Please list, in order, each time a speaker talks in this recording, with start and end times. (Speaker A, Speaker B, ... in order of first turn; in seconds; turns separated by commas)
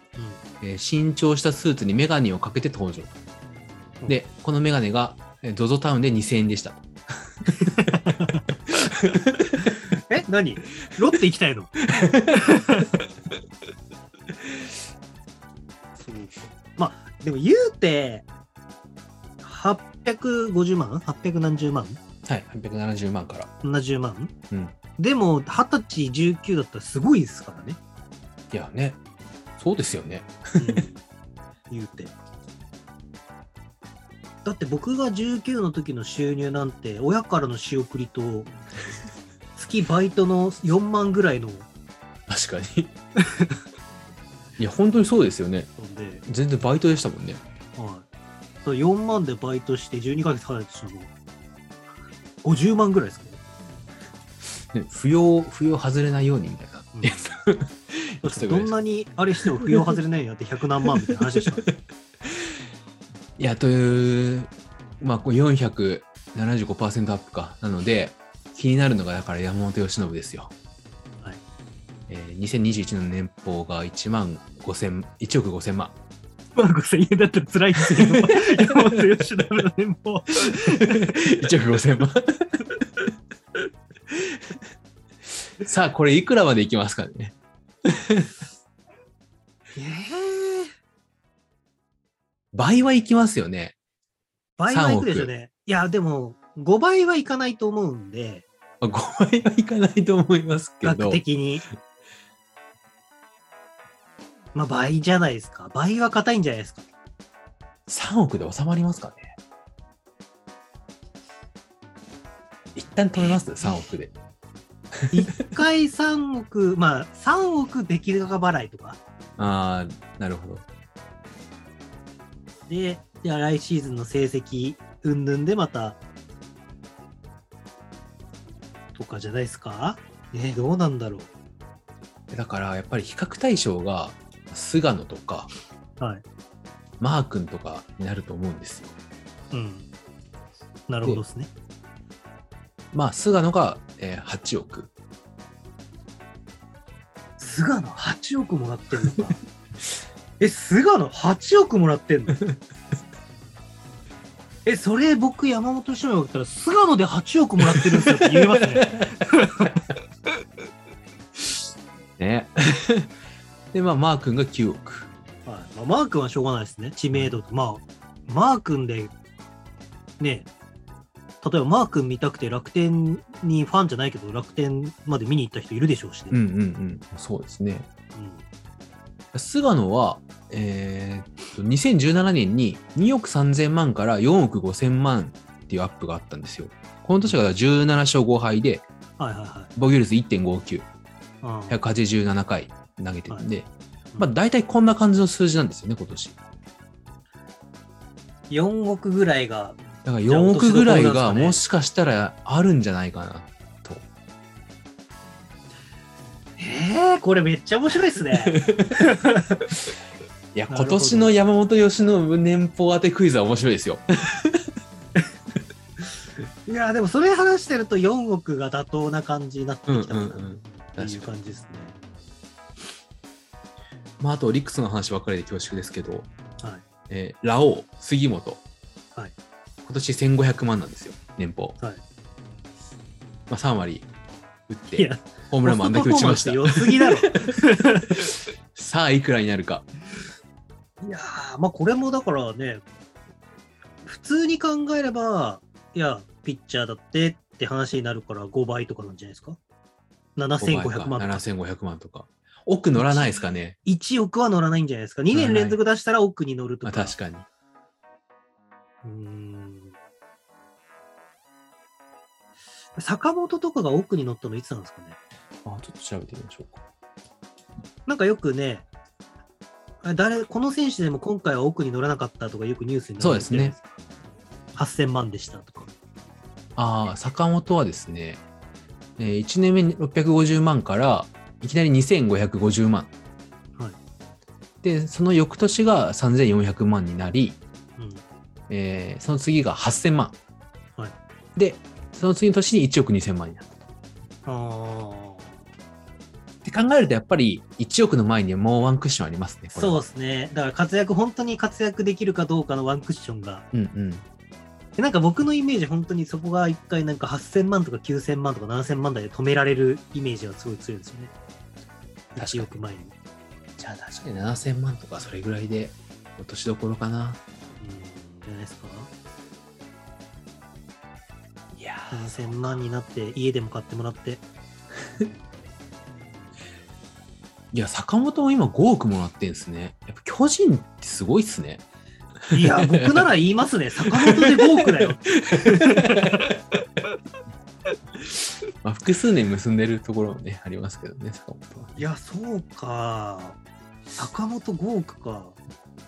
Speaker A: 0.2-0.4, Speaker B: 0.6-3.2, Speaker B: 4.1-6.9, Speaker B: 7.5-7.9, Speaker A: 7.6-8.5, Speaker B: 8.9-9.7, Speaker A: 10.1-11.8, Speaker B: 11.9-12.8, Speaker A: 12.3-12.9, Speaker A: 16.0-18.3, Speaker A: 19.4-22.0, Speaker B: 22.3-23.5, Speaker A: 23.6-24.3, Speaker A: 25.0-27.8, Speaker B: 28.5-29.0, Speaker B: 29.6-30.8, Speaker A: 30.6-31.0, Speaker A: 31.7-32.1, Speaker A: 34.5-38.5, Speaker A: 39.6-41.7, Speaker B: 42.3-42.9, Speaker B: 44.6-45.7, Speaker A: 45.8-46.2, Speaker B: 46.3-47.4, Speaker A: 47.8-48.1, Speaker A: 48.6-51.1, Speaker A: 52.4-53.4, Speaker B: 54.7-58.7, Speaker A: 56.9-57.3, Speaker A: 58.2-61.7, Speaker B: 59.4-59.9, Speaker B: 60.9-61.7, Speaker B: 63.4-70.5, Speaker B: 72.1-76.0, Speaker A: 76.6-81.1, Speaker B: 77.8-79.0, Speaker B: 80.5-82.6, Speaker B: 85.6-88.3, Speaker A: 89.8-90.7, Speaker B: 92.5-93.8, Speaker A: 94.6-98.5, Speaker B: 94.7-95.3, Speaker B: 98.8-101.2, Speaker A: 100.8-101.7, Speaker A: 104.5-106.8, Speaker B: 107.9-109.3, Speaker B: 112.8-114.1, Speaker A: 115.1-119.0, Speaker B: 119.4-120.7, Speaker A: 122.7-126.0, Speaker A: 128.9-131.3, Speaker B: 132.3-135.5, Speaker B: 137.0-138.9, Speaker A: 139.5-139.9, Speaker A: 140.9-141.5, Speaker B: 142.9-144.9, Speaker A: 147.4-149.4, Speaker A: 150.4-152.4, Speaker A: 154.7-159.8, Speaker B: 157.8-159.1, Speaker B: 162.2-163.1, Speaker B: 163.7-165.1, Speaker A: 165.5-169.1, Speaker A: 170.2-170.5, Speaker A: 171.4-176.4, Speaker B: 176.3-177.9, Speaker A: 178.2-178.4, Speaker B: 179.3-188.8, Speaker A: 189.2-189.7, Speaker B: 189.8-190.9, Speaker A: 191.4-191.8, Speaker B: 191.7-196.4, Speaker A: 198.5-201.6, Speaker B: 200.1-204.1, Speaker A: 206.6-209.7, Speaker B: 208.5-209.0, Speaker B: 210.5-214.7, Speaker A: 210.7-211.4, Speaker A: 216.7-220.5, Speaker B: 219.9-221.3, Speaker A: 221.0-222.0, Speaker B: 224.2-226.3, Speaker B: 227.1-228.6, Speaker B: 229.8-231.8, Speaker B: 233.5-234.1, Speaker B: 234.7-237.6, Speaker A: 234.9-238.3, Speaker B: 238.8-239.9, Speaker A: 241.0-242.8, Speaker A: 244.1-249.6, Speaker A: 250.4-251.4, Speaker B: 250.6-253.8, Speaker A: 252.9-257.1, Speaker B: 255.3-255.8, Speaker B: 256.8-257.5, Speaker A: 259.0-259.9, Speaker A: 263.0-265.2, Speaker B: 265.6-266.8, Speaker A: 268.1-268.9, Speaker A: 270.0-274.0, Speaker B: 273.2-273.8, Speaker A: 274.8-275.9, Speaker B: 276.8-278.4, Speaker B: 279.2-283.1, Speaker B: 284.8-287.6, Speaker A: 288.0-288.2, Speaker B: 288.7-290.4, Speaker B: 291.6-293.8, Speaker A: 294.5-295.6, Speaker B: 296.6-300.0, Speaker A: 299.8-303.6, Speaker B: 303.7-304.2, Speaker A: 305.0-311.3, Speaker A: 312.4-313.1, Speaker B: 312.4-312.7, Speaker B: 313.8-317.4, Speaker A: 317.8-319.1, Speaker B: 321.7-322.6, Speaker A: 322.1-324.4, Speaker B: 327.7-331.8, Speaker B: 332.5-333.3, Speaker A: 332.5-336.5, Speaker B: 334.1-336.5, Speaker B: 338.8-342.0, Speaker A: 342.0-343.6, Speaker A: 344.2-345.6